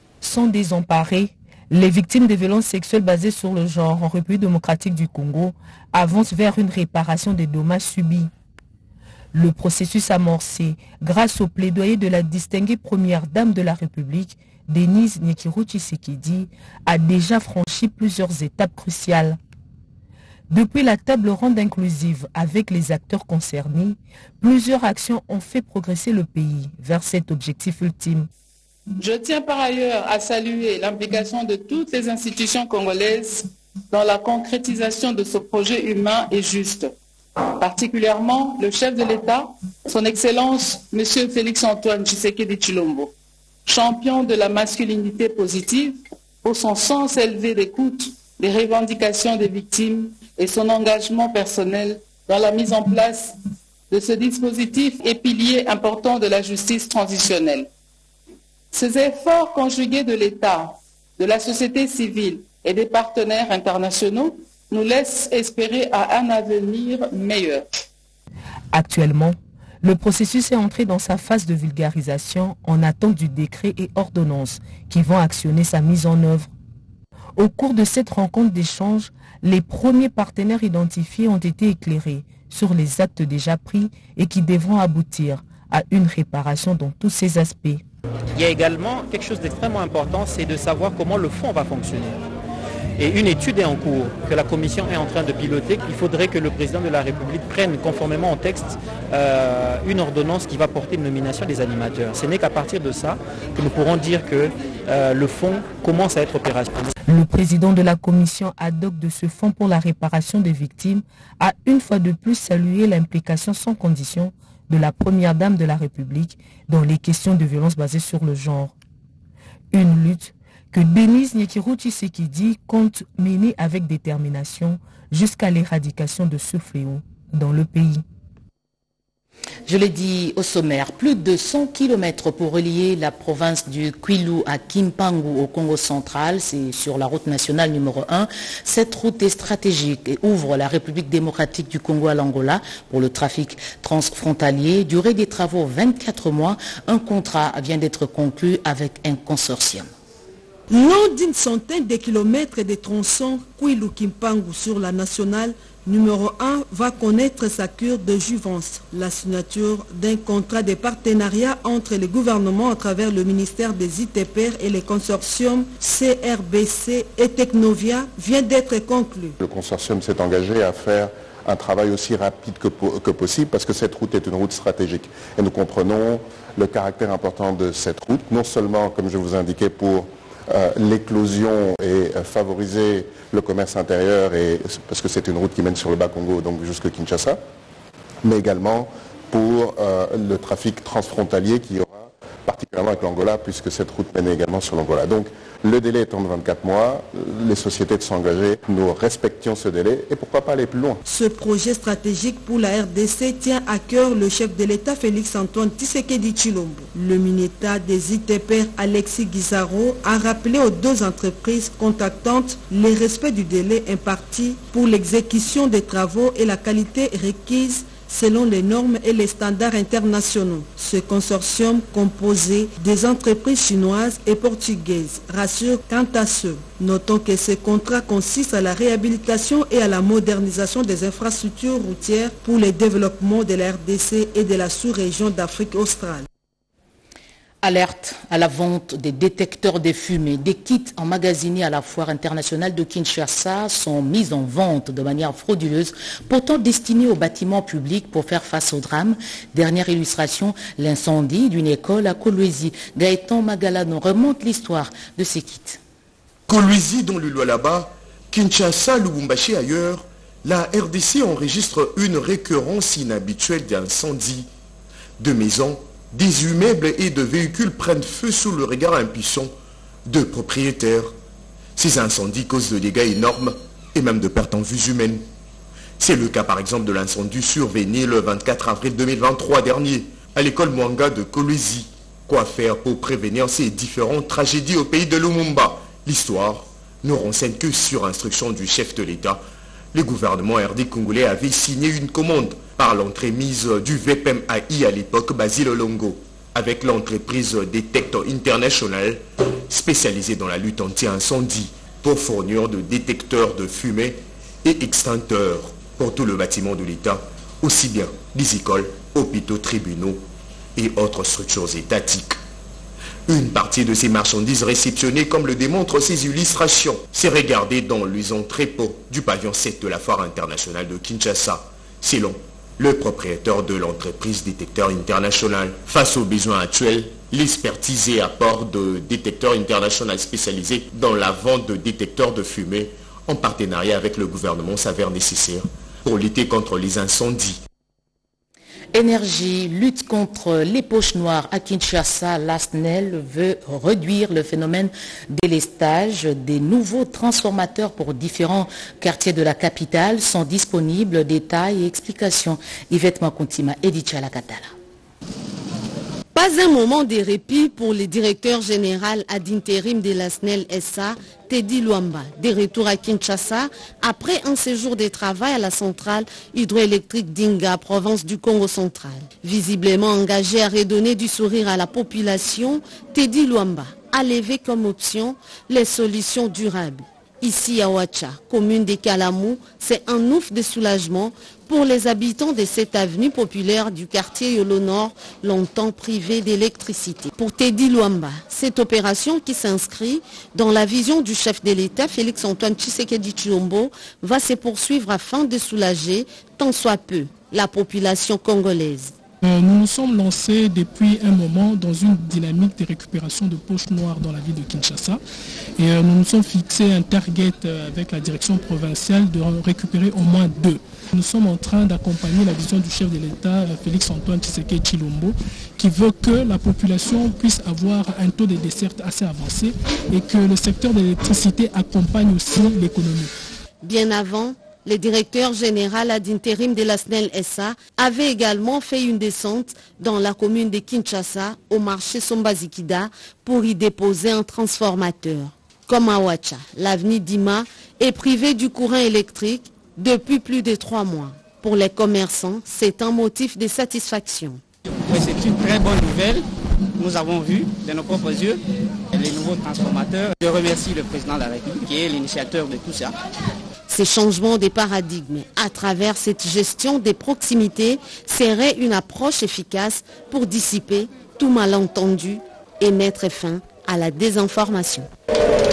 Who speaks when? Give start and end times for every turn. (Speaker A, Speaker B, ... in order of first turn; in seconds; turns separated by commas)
Speaker A: 0.2-8.3, Speaker A: 9.3-19.4, Speaker A: 20.5-28.3, Speaker B: 29.0-36.9, Speaker B: 37.6-43.1, Speaker B: 43.6-53.4, Speaker B: 53.9-57.7, Speaker B: 58.7-67.6, Speaker A: 68.7-76.5, Speaker A: 77.3-87.8, Speaker C: 88.3-92.2, Speaker C: 93.0-106.9, Speaker A: 107.1-118.7, Speaker A: 119.7-128.0, Speaker D: 129.7-149.9, Speaker E: 150.7-169.3, Speaker F: 169.4-187.4, Speaker F: 188.2-201.0, Speaker E: 201.1-236.2, Speaker D: 237.6-255.8, Speaker G: 256.5-264.5, Speaker G: 265.2-269.5, Speaker G: 270.1-271.1, Speaker G: 271.8-275.2, Speaker G: 276.0-289.4, Speaker G: 289.9-310.2, Speaker G: 310.8-312.4, Speaker G: 313.3-337.6, Speaker D: 338.9-354.7, Speaker H: 356.3-399.1, Speaker I: 399.4-405.2, Speaker I: 405.8-423.3, Speaker H: 423.8-444.6, Speaker J: 445.0-448.6, Speaker J: 449.1-453.1, Speaker H: 453.9-465.1